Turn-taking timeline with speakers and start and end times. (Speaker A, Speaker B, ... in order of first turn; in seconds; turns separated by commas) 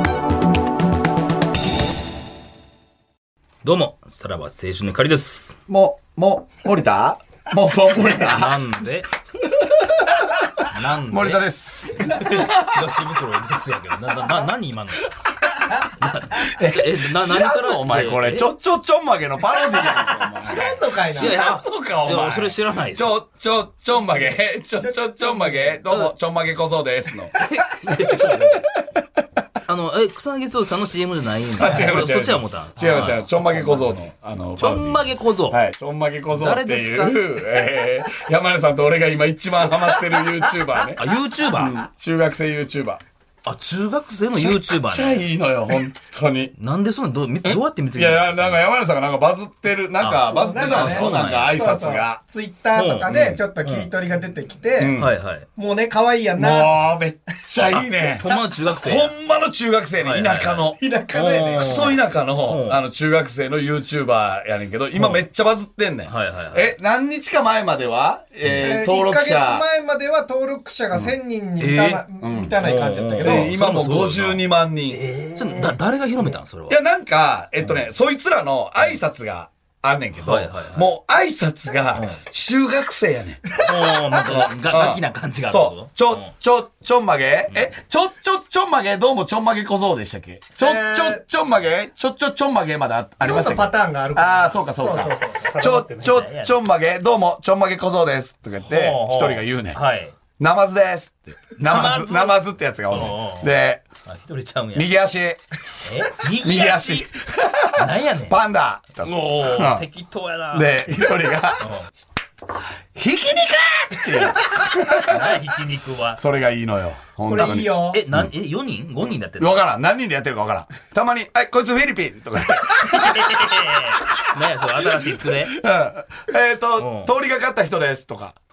Speaker A: 3.6-5.6, Speaker B: 5.7-8.6, Speaker A: 8.1-9.1, Speaker B: 9.6-12.8, Speaker A: 10.7-15.1, Speaker A: 15.8-18.5, Speaker B: 16.4-27.4, Speaker C: 20.3-21.4, Speaker A: 21.1-23.1, Speaker C: 24.8-25.8, Speaker A: 25.9-26.1, Speaker A: 27.4-28.7, Speaker B: 27.9-28.6, Speaker A: 29.6-34.0, Speaker B: 31.5-43.0, Speaker A: 34.6-35.6, Speaker A: 36.3-37.2, Speaker A: 41.0-41.8, Speaker A: 43.5-45.3, Speaker B: 44.3-46.5, Speaker A: 46.5-48.6, Speaker B: 47.4-52.2, Speaker A: 50.0-51.6, Speaker C: 50.2-55.0, Speaker A: 52.7-53.9, Speaker B: 53.1-53.4, Speaker B: 54.8-55.1, Speaker A: 55.0-55.5, Speaker C: 55.5-56.9, Speaker B: 56.4-58.3, Speaker A: 58.1-59.1, Speaker B: 58.8-60.8, Speaker A: 60.0-62.8, Speaker C: 60.7-61.9, Speaker B: 61.5-69.7, Speaker A: 66.1-66.8, Speaker C: 68.5-73.5, Speaker A: 71.6-72.0, Speaker B: 72.2-72.6, Speaker A: 72.6-76.8, Speaker B: 73.2-75.1, Speaker B: 76.7-83.5, Speaker A: 80.2-80.9, Speaker A: 83.6-86.3, Speaker B: 84.2-99.8, Speaker C: 90.6-91.2, Speaker C: 93.2-95.5, Speaker A: 95.3-96.6, Speaker A: 98.6-100.2, Speaker B: 100.4-103.9, Speaker A: 101.6-102.4, Speaker A: 102.9-103.5, Speaker A: 104.1-104.9, Speaker B: 104.8-105.4, Speaker A: 105.8-107.1, Speaker B: 106.2-109.9, Speaker A: 107.8-108.4, Speaker A: 109.0-110.8, Speaker B: 110.5-111.7, Speaker A: 111.6-111.9, Speaker B: 113.0-115.5, Speaker A: 115.0-116.2, Speaker B: 116.2-118.3, Speaker C: 117.2-118.0, Speaker A: 117.4-119.6, Speaker B: 119.4-123.5, Speaker A: 122.7-125.6, Speaker B: 124.8-128.4, Speaker A: 126.8-127.1